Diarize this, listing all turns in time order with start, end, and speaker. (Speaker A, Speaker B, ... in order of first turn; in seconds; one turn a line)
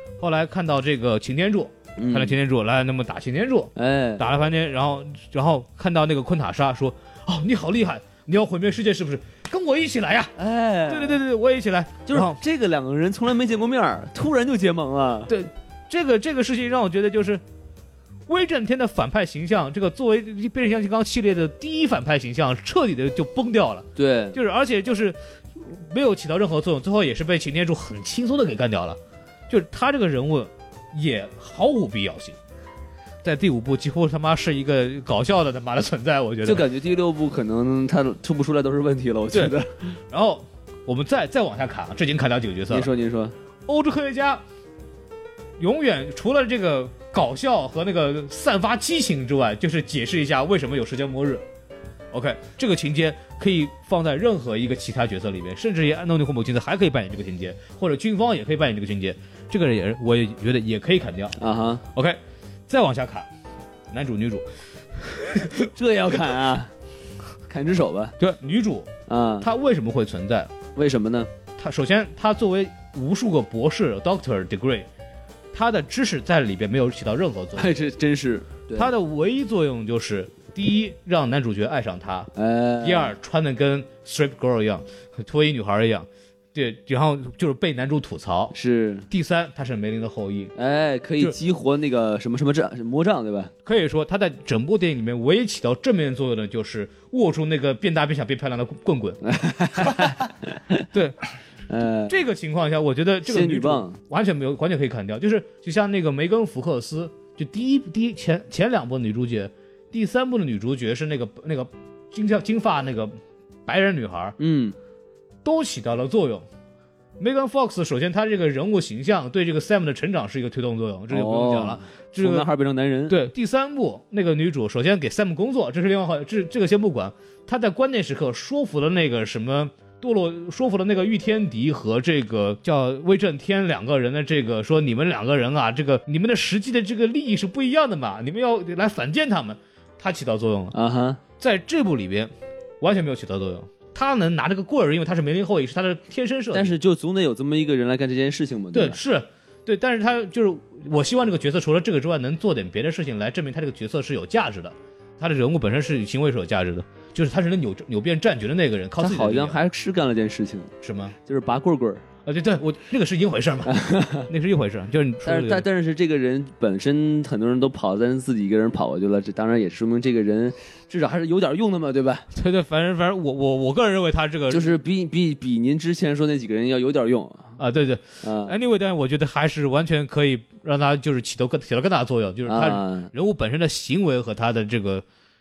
Speaker A: 0.2-10.3
Speaker B: 2.0-2.3
Speaker B: 3.8-4.2
Speaker B: 10.4-11.2
Speaker A: 10.9-12.4
Speaker B: 12.1-15.3
Speaker A: 15.3-17.4
Speaker A: 18.3-32.4
Speaker B: 23.9-24.4
Speaker A: 33.2-36.7
Speaker B: 36.4-40.0
Speaker A: 40.1-42.9
Speaker B: 42.7-43.3
Speaker A: 43.7-44.4
Speaker A: 45.6-51.4
Speaker A: 52.1-61.4
Speaker B: 61.4-61.8
Speaker A: 61.9-63.3
Speaker A: 63.9-64.4
Speaker A: 65.0-65.7
Speaker B: 65.7-66.7
Speaker B: 67.5-68.1
Speaker A: 68.2-68.9
Speaker B: 69.1-69.5
Speaker A: 69.4-70.5
Speaker B: 70.7-71.3
Speaker A: 71.6-74.9
Speaker A: 75.5-77.8
Speaker B: 77.5-78.9
Speaker A: 78.8-88.5
Speaker B: 82.3-83.1
Speaker B: 88.5-89.1
Speaker A: 89.1-90.5
Speaker B: 90.5-93.5
Speaker A: 93.6-99.2
Speaker B: 99.2-100.8
Speaker A: 99.8-100.1
Speaker A: 100.9-101.2
Speaker B: 101.7-102.2
Speaker A: 102.1-113.1
Speaker B: 103.3-104.0
Speaker A: 113.7-114.3
Speaker B: 114.4-114.8
Speaker A: 115.4-116.5
Speaker A: 117.2-122.5
Speaker B: 121.1-123.2
Speaker A: 123.1-140.7
Speaker B: 140.7-141.2
Speaker A: 141.4-146.8
Speaker B: 146.5-149.0
Speaker A: 148.7-159.6
Speaker B: 159.0-160.7
Speaker A: 160.8-161.1
Speaker B: 161.2-162.0
Speaker A: 162.2-165.7
Speaker B: 163.7-164.3
Speaker B: 165.2-172.3
Speaker A: 172.3-174.7
Speaker B: 174.5-177.5
Speaker A: 177.6-185.0
Speaker B: 178.2-178.6
Speaker B: 182.5-183.1